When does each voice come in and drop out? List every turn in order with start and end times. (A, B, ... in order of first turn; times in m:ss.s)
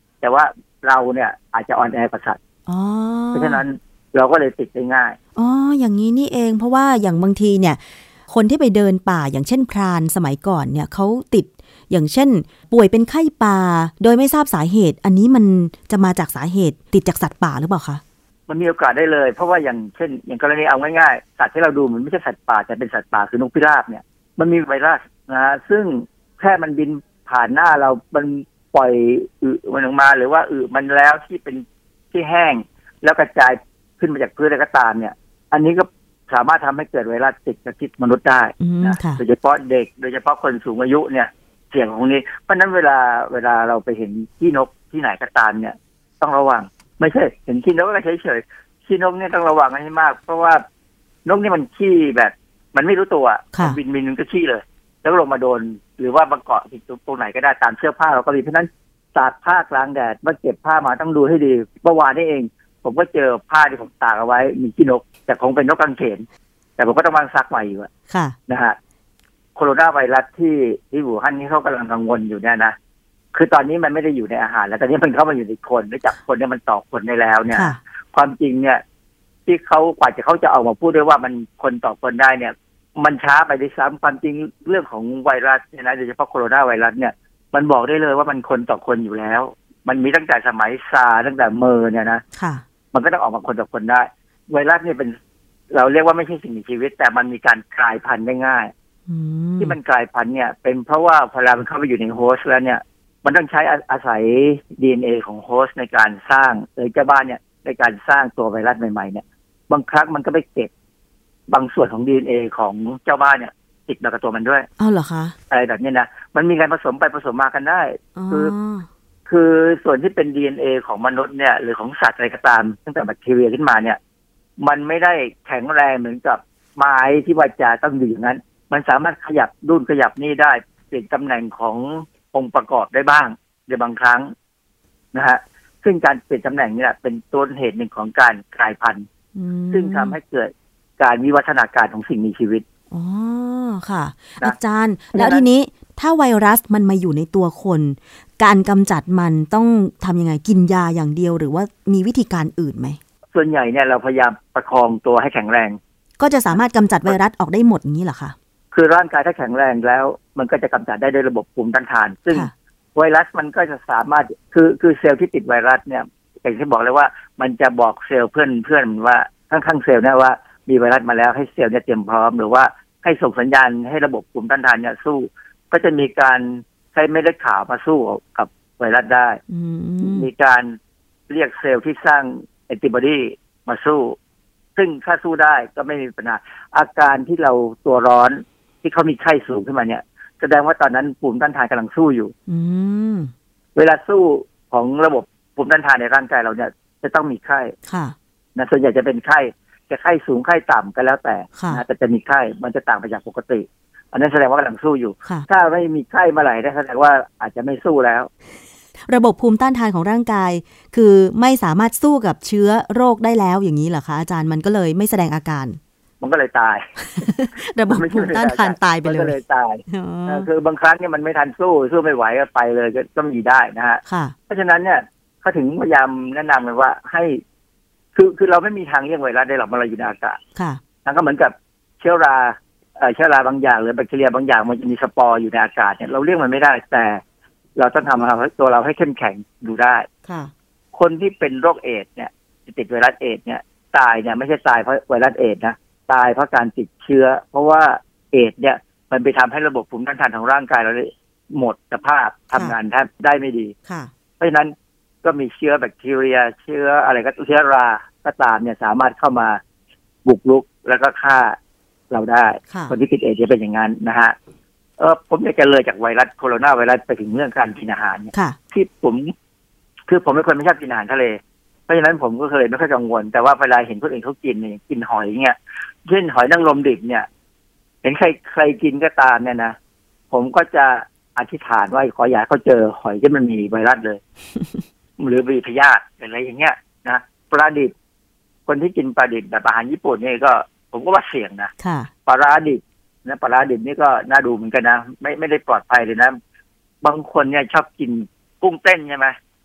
0:00.2-0:02.4 A
0:02.7-0:03.6 B
0:03.3-0:05.2 A
0:05.4-0:18.0 B
0:18.5-0:50.6 A
0:38.6-0:39.2 B
0:51.2-1:06.2 A
1:06.8-1:07.9 A
1:08.1-1:08.4 B
1:08.5-1:08.8 A
1:09.5-1:12.7 A
1:13.3-1:18.8 A
1:17.5-1:17.8 B
1:19.4-1:32.2 A
1:32.3-1:32.6 B
1:32.9-1:35.1 A
1:35.7-1:38.7 A
1:39.1-1:39.8 B
1:39.6-1:50.7 A
1:51.5-1:54.7 A
1:54.8-1:55.4 B
1:55.5-1:58.5 A
1:58.2-1:58.9 B
1:59.2-2:04.0 A
2:04.6-2:14.3 A
2:15.1-2:19.0 A
2:19.3-2:20.2 B
2:19.7-2:22.6 A
2:22.9-2:33.0 B
2:25.1-2:25.4 A
2:33.3-2:35.8 A
2:36.2-2:38.3 B
2:36.5-2:37.2 A
2:38.7-2:59.4 A
2:59.5-3:00.3 B
3:00.0-3:00.8 A
3:01.3-3:04.2 A
3:04.8-3:12.3 A
3:12.5-3:13.3 B
3:13.7-3:17.7 A
3:17.9-3:18.1 B
3:18.5-3:28.3 A
3:21.6-3:21.8 B
3:29.1-3:35.8 B
3:36.2-3:36.9 A
3:37.0-3:39.4 B
3:37.9-3:47.4 A
3:39.9-3:40.5 B
3:44.0-3:44.3 B
3:48.1-3:50.4 A
3:50.5-3:50.8 B
3:51.0-3:57.2 A
3:57.8-4:00.1 A
4:00.2-4:00.5 B
4:00.9-4:13.7 A
4:13.8-4:14.1 B
4:14.4-4:19.6 A
4:20.2-4:21.6 A
4:22.1-4:24.3 A
4:25.0-4:29.3 A
4:30.1-4:37.2 A
4:38.0-4:39.7 A
4:40.3-4:44.2 A
4:45.2-4:47.9 A
4:48.6-4:51.7 A
4:51.8-4:52.1 B
4:52.2-4:56.4 A
4:57.0-4:59.3 A